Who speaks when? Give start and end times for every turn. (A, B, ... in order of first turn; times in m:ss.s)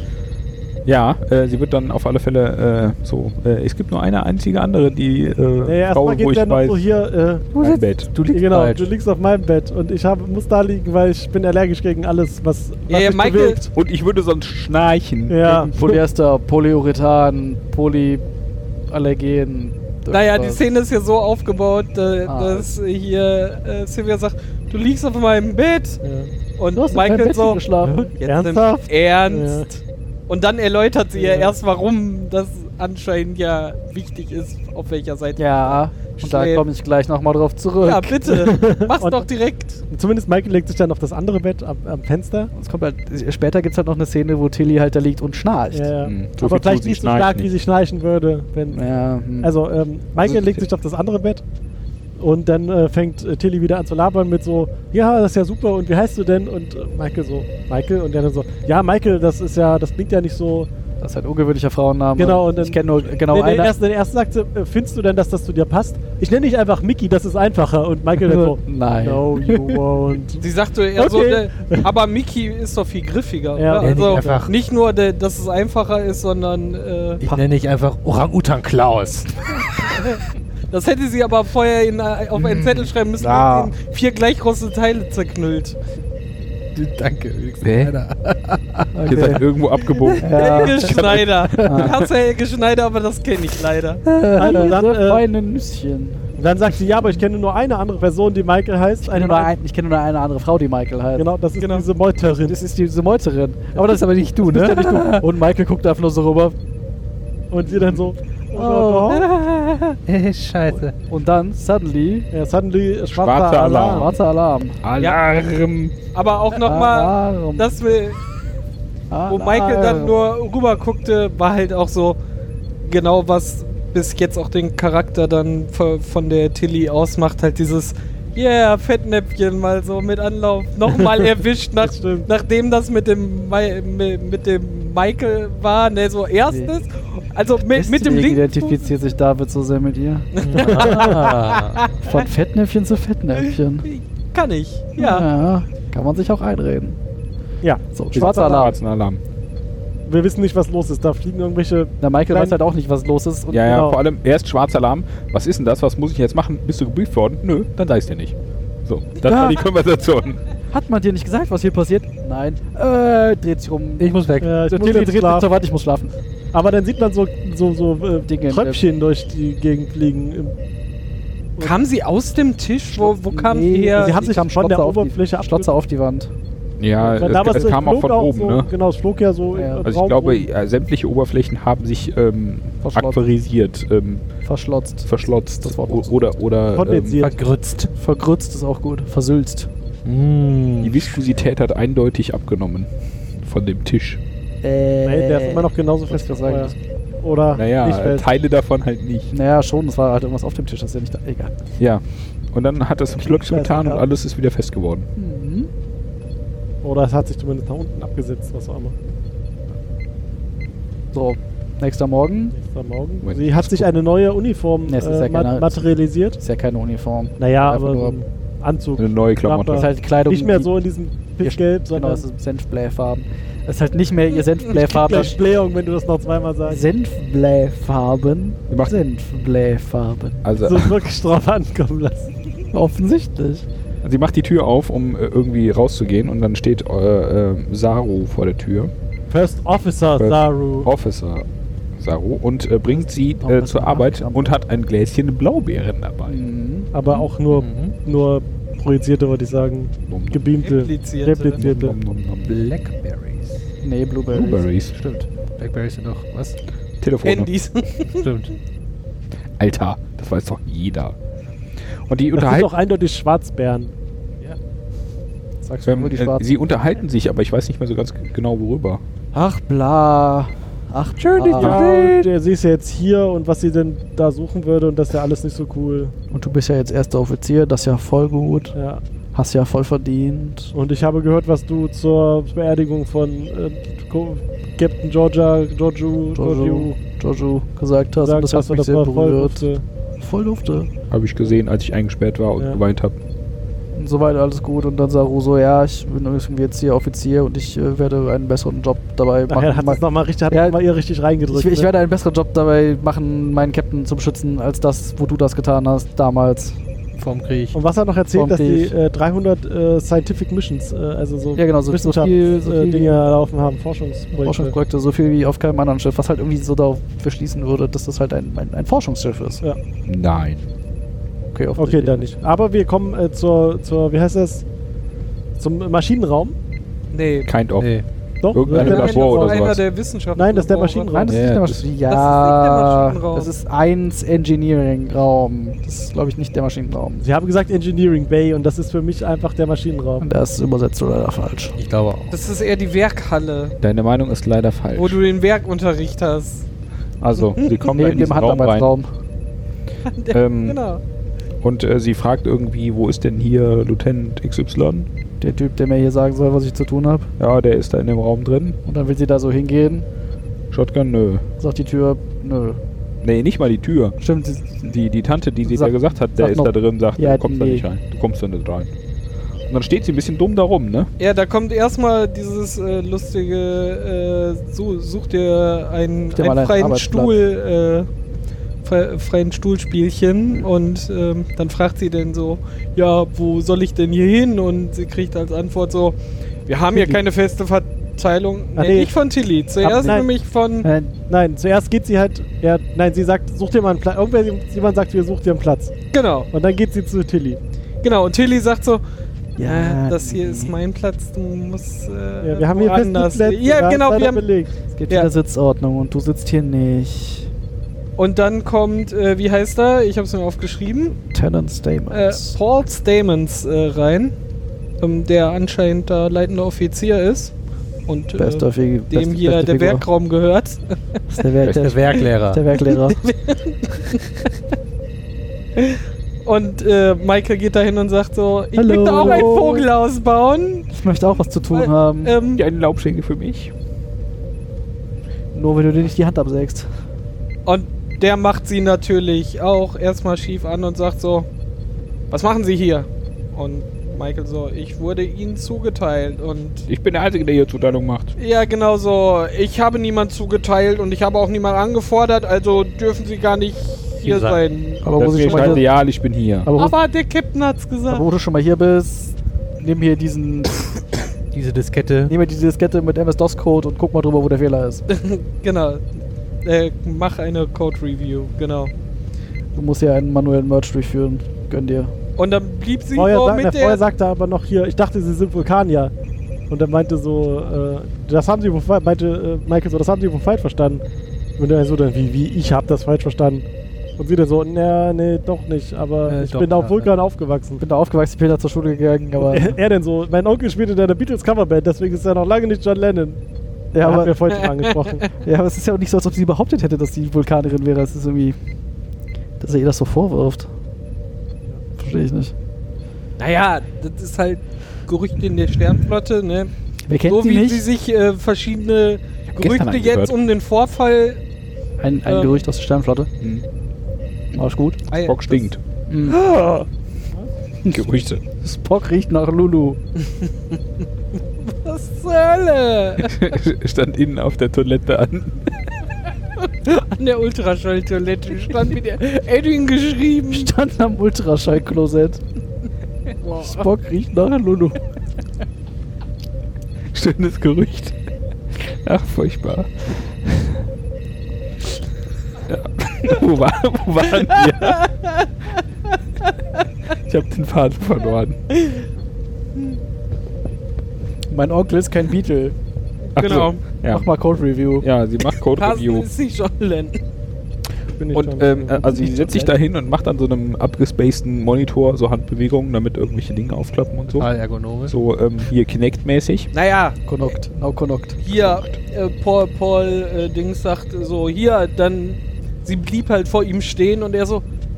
0:00.9-0:06.8 A
0:05.6-0:07.5 B
0:07.6-0:08.4 C
0:07.6-0:08.2 A
0:08.1-0:08.9 D
0:08.3-0:13.7 B
0:12.9-0:13.6 E
0:13.8-0:15.7 A
0:15.3-0:15.7 B
0:15.6-0:18.2 C
0:18.9-0:20.6 C
0:20.1-0:26.0 E
0:22.3-0:22.7 C
0:26.0-0:26.3 B
0:26.6-0:27.6 E
0:26.7-0:28.1 C
0:27.8-0:29.7 B
0:28.2-0:36.6 E
0:31.2-0:31.5 B
0:35.4-0:38.2 C
0:37.8-0:39.8 E
0:38.3-0:39.3 B
0:39.9-0:42.5 B
0:42.5-0:45.9 C
0:45.7-0:48.8 B
0:46.0-0:47.5 A
0:48.7-0:49.5 C
0:49.4-0:51.4 B
0:50.2-0:50.6 A
0:52.2-1:00.7 B
1:01.0-1:03.7 C
1:02.2-1:10.4 B
1:08.2-1:09.8 C
1:10.4-1:17.2 E
1:11.0-1:11.8 B
1:13.6-1:14.4 B
1:13.8-1:14.5 D
1:17.2-1:19.9 D
1:20.7-1:25.8 E
1:23.2-1:23.7 C
1:26.7-1:28.9 D
1:27.6-1:27.9 A
1:28.9-1:29.4 C
1:29.1-1:31.3 A
1:30.2-1:34.0 E
1:30.2-1:32.0 C
1:34.0-1:36.3 C
1:34.4-1:35.2 B
1:36.4-1:39.5 B
1:39.0-1:41.3 C
1:41.2-1:42.6 B
1:41.6-1:41.9 E
1:42.5-1:46.6 C
1:43.8-1:45.3 D
1:47.5-1:49.3 B
1:48.5-1:50.0 C
1:50.1-1:51.0 D
1:51.0-1:52.3 C
1:52.3-1:54.1 B
1:53.1-1:54.1 A
1:53.8-1:54.8 C
1:54.8-1:56.0 A
1:56.1-1:58.2 E
1:56.6-1:57.7 C
1:59.1-2:00.1 C
1:59.3-2:02.2 E
2:02.8-2:18.9 E
2:11.8-2:12.3 B
2:17.7-2:21.0 C
2:20.4-2:22.2 E
2:20.4-2:21.8 D
2:20.6-2:21.2 B
2:22.0-2:23.9 C
2:23.8-2:25.3 E
2:25.0-2:27.0 C
2:27.6-2:28.8 B
2:27.9-2:28.7 C
2:28.1-2:29.2 A
2:30.1-2:32.6 B
2:32.0-2:33.9 C
2:33.5-2:40.4 A
2:39.2-2:39.6 C
2:40.7-2:46.1 C
2:44.0-2:44.5 D
2:44.4-2:45.5 B
2:46.5-2:50.6 B
2:48.2-2:48.8 C
2:51.6-2:54.2 E
2:53.0-2:56.3 C
2:53.9-2:55.7 B
2:56.8-2:58.7 A
2:57.0-3:00.5 B
2:59.5-2:59.9 C
2:59.8-3:04.3 A
3:02.8-3:03.2 C
3:04.4-3:06.2 C
3:05.0-3:07.2 A
3:06.7-3:07.4 B
3:07.2-3:07.9 D
3:08.0-3:09.7 C
3:10.0-3:11.1 D
3:10.8-3:14.2 A
3:14.6-3:16.8 C
3:15.0-3:18.3 B
3:17.5-3:19.3 A
3:19.3-3:21.5 C
3:21.8-3:25.1 A
3:23.2-3:24.0 B
3:25.2-3:25.7 C
3:26.8-3:29.0 B
3:31.1-3:32.6 C
3:32.6-3:36.4 B
3:33.2-3:33.9 A
3:34.9-3:38.2 C
3:37.4-3:42.2 B
3:39.0-3:39.9 A
3:39.7-3:40.7 C
3:41.2-3:45.4 C
3:44.7-3:46.8 B
3:46.7-3:50.5 C
3:48.7-3:49.0 A
3:50.4-3:51.0 A
3:50.6-3:52.3 B
3:52.7-3:53.6 C
3:54.0-3:58.9 A
3:59.3-4:00.9 B
4:00.2-4:06.4 A
4:03.4-4:04.6 C
4:06.3-4:06.9 C
4:06.9-4:12.0 B
4:07.1-4:08.0 D
4:10.1-4:10.5 A
4:10.6-4:11.6 E
4:11.6-4:12.6 A
4:12.4-4:13.6 D
4:13.8-4:14.7 C
4:14.3-4:14.9 A
4:14.9-4:16.6 D
4:17.0-4:17.5 A
4:17.2-4:18.3 E
4:18.2-4:18.6 D
4:19.6-4:21.2 A
4:22.1-4:22.7 A
4:22.3-4:23.9 B
4:25.6-4:26.7 C
4:25.9-4:29.0 A
4:29.3-4:31.9 C
4:31.5-4:36.1 B
4:31.6-4:32.1 A
4:36.3-4:38.8 C
4:38.8-4:39.0 B
4:39.3-4:40.7 C
4:40.7-4:46.9 B
4:46.4-4:49.7 C
4:48.2-4:49.8 B
4:50.2-4:50.9 C
4:51.1-4:53.2 A
4:54.0-5:00.8 C
4:59.5-5:01.9 B
5:01.5-5:06.8 C
5:07.2-5:07.8 D
5:07.7-5:14.8 B
5:08.3-5:08.9 C
5:11.6-5:13.2 C
5:14.4-5:19.6 C
5:20.1-5:20.7 A
5:21.5-5:22.4 C
5:21.8-5:24.6 B
5:25.6-5:26.6 B
5:27.1-5:27.5 E
5:27.5-5:28.0 A
5:27.8-5:28.0 D
5:28.4-5:29.6 B
5:28.5-5:29.8 A
5:28.7-5:31.1 E
5:30.4-5:31.4 B
5:31.1-5:37.2 C
5:31.3-5:31.8 A
5:32.1-5:33.5 E
5:37.2-5:40.3 B
5:40.2-5:41.8 C
5:41.8-5:42.4 D
5:42.3-5:43.8 E
5:43.8-5:45.2 A
5:45.0-5:46.6 E
5:47.2-5:48.9 A
5:47.4-5:47.8 E
5:47.9-5:49.1 C
5:50.1-5:51.0 E
5:50.3-5:50.8 A
5:51.6-5:55.1 A
5:55.4-5:57.3 C
5:57.4-5:58.8 A
5:58.8-6:00.1 C
6:00.7-6:01.4 A
6:01.6-6:02.8 C
6:03.2-6:04.2 A
6:04.2-6:04.9 C
6:04.8-6:08.9 A
6:05.6-6:07.9 C
6:09.7-6:11.1 A
6:11.2-6:18.1 E
6:16.3-6:17.3 C
6:18.8-6:30.9 E
6:28.8-6:29.1 B
6:29.8-6:30.3 B
6:30.0-6:30.2 C
6:30.8-6:31.2 C
6:31.3-6:35.9 B
6:36.1-6:36.5 E
6:36.5-6:37.6 B
6:38.0-6:39.0 E
6:39.6-6:40.7 C
6:39.6-6:44.5 E
6:42.4-6:44.7 B
6:44.9-6:47.5 C
6:48.2-6:51.2 E
6:51.3-6:52.6 C
6:52.1-6:54.3 E
6:55.0-6:57.5 E
6:58.1-7:01.2 E
6:58.4-7:00.1 C
7:01.3-7:03.2 C
7:01.6-7:02.6 D
7:02.9-7:04.5 E
7:05.8-7:10.9 E
7:08.7-7:09.9 C
7:10.9-7:12.4 C
7:11.7-7:12.6 E
7:12.6-7:13.7 A
7:15.5-7:16.9 C
7:17.7-7:21.5 E
7:22.3-7:26.9 E
7:26.9-7:28.3 A
7:28.4-7:35.8 E
7:34.2-7:34.6 D
7:35.0-7:35.9 C
7:35.2-7:36.7 A
7:36.6-7:37.0 C
7:36.8-7:38.2 E
7:38.1-7:41.0 C
7:41.5-7:42.3 D
7:42.3-7:45.0 C
7:45.1-7:46.0 E
7:46.6-7:48.9 E
7:49.8-7:52.1 C
7:52.4-7:54.0 E
7:53.2-7:56.1 B
7:56.7-8:01.0 B
8:01.6-8:03.7 B
8:04.2-8:07.8 B
8:06.3-8:07.0 D
8:07.8-8:09.8 C
8:09.4-8:13.4 B
8:13.9-8:14.4 C
8:14.0-8:15.3 B
8:14.5-8:15.2 E
8:15.4-8:18.6 C
8:19.6-8:20.7 C
8:22.0-8:22.5 C
8:23.4-8:26.7 E
8:27.1-8:27.8 C
8:27.3-8:31.4 E
8:29.5-8:30.3 A
8:32.0-8:33.3 C
8:32.3-8:32.6 E
8:33.4-8:33.7 A
8:34.5-8:35.0 C
8:35.1-8:35.7 E
8:35.2-8:35.8 A
8:36.1-8:36.4 C
8:36.3-8:36.9 E
8:37.9-8:38.4 A
8:38.6-8:40.0 C
8:41.6-8:43.4 E
8:43.2-8:45.8 A
8:46.6-8:50.7 E
8:50.5-8:52.4 C
8:53.4-8:53.8 E
8:53.6-8:55.0 C
8:57.1-8:58.2 A
8:58.8-9:00.8 A
9:02.7-9:05.0 A
9:04.4-9:06.4 E
9:07.2-9:08.6 A
9:08.7-9:09.0 E
9:11.5-9:12.8 C
9:13.3-9:13.8 E
9:13.4-9:14.3 A
9:14.1-9:15.1 C
9:15.0-9:16.3 A
9:15.8-9:17.2 E
9:18.2-9:19.0 B
9:18.3-9:24.5 A
9:19.0-9:19.7 C
9:24.4-9:25.2 D
9:25.0-9:26.7 A
9:26.7-9:27.5 E
9:27.3-9:28.4 C
9:28.4-9:34.6 E
9:28.5-9:29.0 A